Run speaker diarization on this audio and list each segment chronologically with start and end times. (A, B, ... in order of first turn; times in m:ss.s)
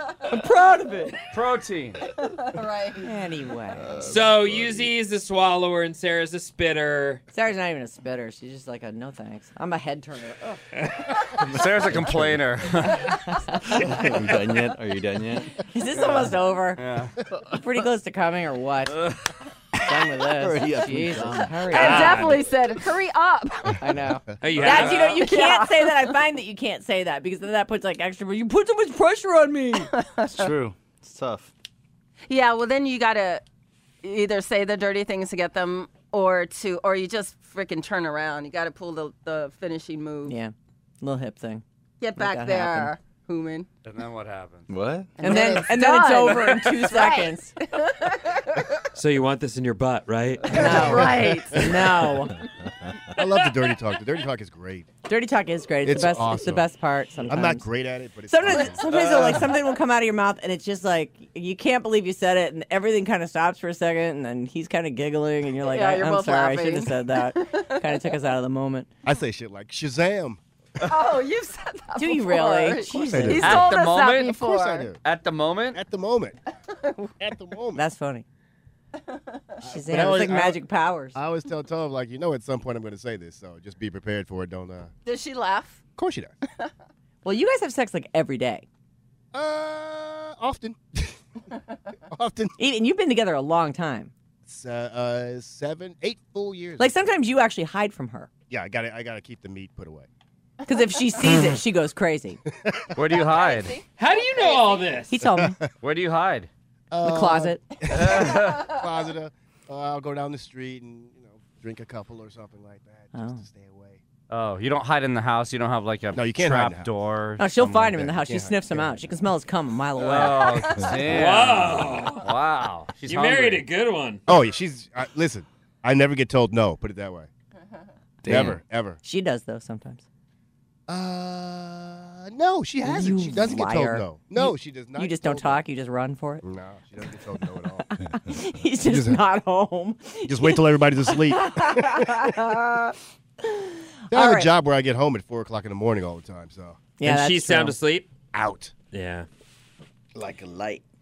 0:00.3-0:01.2 A
0:01.3-0:02.0 B
0:02.3-0:03.1 C
0:03.0-0:03.9 A
0:03.8-0:04.9 D
0:04.0-0:07.2 E
0:07.3-0:10.6 A
0:11.2-0:13.2 B
0:11.4-0:12.4 D
0:13.3-0:14.0 A
0:13.8-0:15.6 D
0:15.6-0:16.8 A
0:16.8-0:17.1 B
0:17.5-0:19.0 A
0:19.8-0:21.7 D
0:19.8-0:22.2 A
0:21.7-0:24.0 C
0:21.7-0:22.5 E
0:23.8-0:29.9 A
0:24.4-0:25.2 E
0:24.7-0:26.0 C
0:30.0-0:30.5 C
0:30.2-0:31.5 D
0:32.3-0:33.4 C
0:34.0-0:40.4 C
0:40.3-0:41.6 A
0:42.0-0:43.7 C
0:42.2-0:42.9 A
0:43.8-0:44.7 B
0:44.7-0:45.2 D
0:45.2-0:48.7 C
0:45.2-0:47.5 A
0:49.0-0:51.0 E
0:50.5-0:51.9 C
0:50.5-0:52.4 A
0:53.1-0:54.9 F
0:55.1-0:57.7 A
0:55.8-0:56.7 F
0:57.3-0:58.9 F
0:58.3-1:08.9 A
0:58.9-0:59.5 B
1:05.6-1:08.0 C
1:09.0-1:10.4 F
1:10.8-1:14.9 C
1:12.0-1:13.7 A
1:12.9-1:13.8 F
1:13.3-1:14.4 B
1:14.4-1:15.0 F
1:15.0-1:15.8 B
1:15.7-1:16.4 F
1:17.2-1:17.8 F
1:17.8-1:18.3 A
1:19.6-1:20.6 F
1:19.6-1:21.2 A
1:21.2-1:24.9 F
1:25.1-1:25.8 C
1:26.0-1:26.3 F
1:27.2-1:28.7 A
1:29.3-1:31.2 F
1:32.1-1:32.6 F
1:32.6-1:34.1 A
1:34.4-1:37.1 F
1:36.8-1:38.3 A
1:38.5-1:40.1 F
1:40.7-1:42.4 A
1:42.6-1:43.0 F
1:43.0-1:43.8 B
1:43.1-1:45.0 C
1:44.0-1:45.1 E
1:45.1-1:45.6 A
1:45.2-1:45.7 F
1:45.8-1:46.5 B
1:46.9-1:54.0 F
1:47.0-1:47.6 A
1:47.9-1:48.7 B
1:53.1-1:53.4 A
1:54.3-1:57.8 B
1:56.1-1:56.9 F
1:57.4-2:01.0 A
1:57.6-1:58.9 F
2:00.0-2:03.6 B
2:01.0-2:02.3 E
2:03.0-2:04.2 E
2:04.3-2:07.3 F
2:08.2-2:08.6 D
2:08.2-2:09.0 F
2:09.0-2:10.0 A
2:10.9-2:15.6 F
2:12.8-2:16.4 A
2:16.4-2:17.9 F
2:17.9-2:24.5 A
2:18.8-2:19.2 F
2:20.3-2:22.6 F
2:24.1-2:26.8 F
2:27.0-2:27.8 A
2:27.0-2:28.1 E
2:28.3-2:28.7 F
2:28.9-2:29.3 E
2:30.2-2:30.8 D